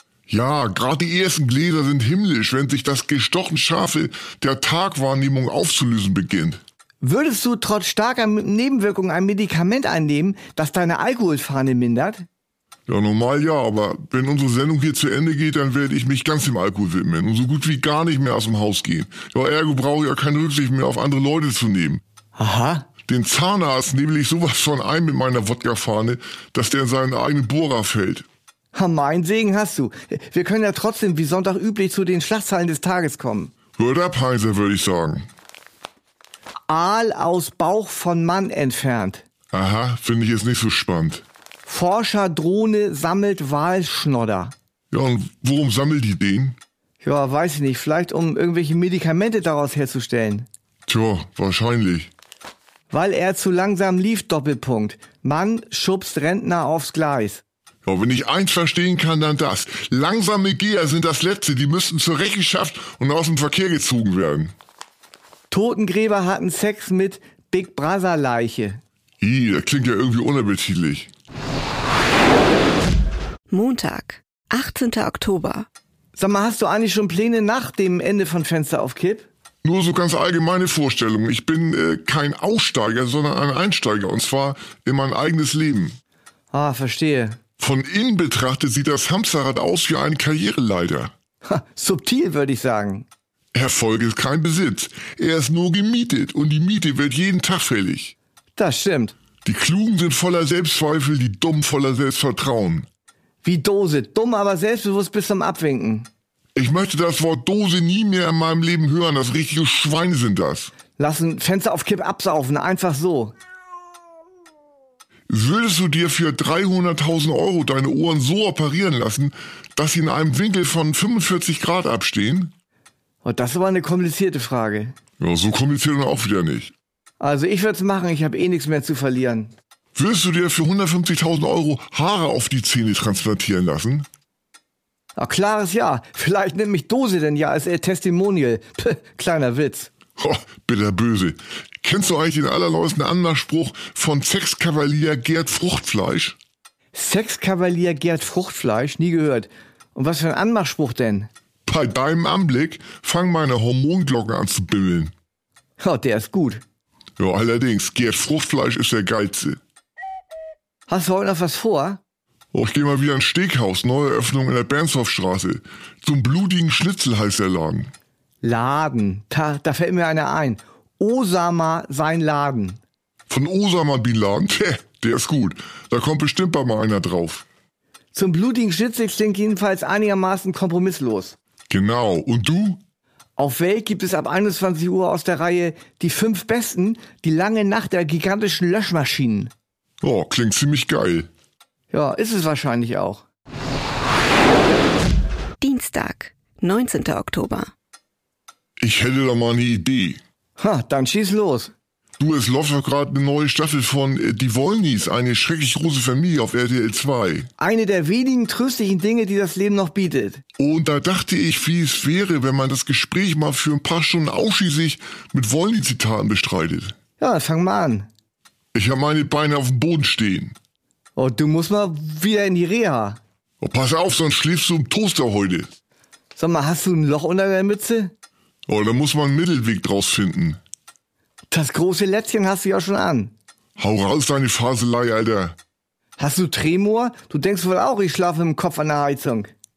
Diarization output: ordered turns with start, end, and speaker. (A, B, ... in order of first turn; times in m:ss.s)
0:00.3-0:06.6 A
0:07.0-0:12.2 B
0:12.9-0:22.0 A
0:22.4-0:22.9 B
0:23.1-0:28.2 A
0:28.7-0:33.5 B
0:33.8-0:35.2 A
0:36.7-0:39.2 B
0:39.5-0:41.2 A
0:41.6-0:44.5 B
0:44.9-0:46.6 A
0:47.0-0:50.5 B
0:50.9-0:52.1 A
0:52.9-0:57.4 B
0:57.8-1:04.5 A
1:05.5-1:08.8 B
1:09.2-1:11.1 A
1:13.5-1:15.7 C
1:16.2-1:19.3 B
1:19.6-1:26.0 A
1:26.5-1:27.4 B
1:27.6-1:31.1 A
1:31.4-1:33.1 B
1:33.5-1:38.1 A
1:38.6-1:39.1 B
1:39.4-1:42.8 A
1:43.4-1:46.1 B
1:46.5-1:50.7 A
1:51.0-1:53.4 B
1:55.3-2:02.5 A
2:03.2-2:04.9 B
2:05.2-2:06.7 A
2:07.2-2:09.5 B
2:09.9-2:14.0 A
2:15.2-2:19.9 B
2:20.2-2:26.4 A
2:26.9-2:31.3 B
2:31.6-2:35.1 A
2:35.8-2:36.6 B
2:37.2-2:39.6 A
2:40.9-2:42.0 B
2:42.5-2:47.9 A
2:48.4-2:52.8 B
2:53.3-2:57.4 A
2:58.1-3:01.4 B
3:01.7-3:02.8 A
3:03.4-3:09.5 B
3:10.0-3:11.3 A
3:11.9-3:13.2 B
3:15.6-3:17.7 C
3:18.8-3:20.2 A
3:20.6-3:21.7 B
3:22.2-3:27.5 A
3:27.6-3:30.4 B
3:30.6-3:36.9 A
3:37.2-3:38.1 B
3:38.7-3:40.6 A
3:41.2-3:43.2 B
3:43.6-3:45.7 A
3:46.4-3:48.1 B
3:48.7-3:50.6 A
3:51.5-3:53.3 B
3:53.8-3:55.6 A
3:56.2-3:59.5 B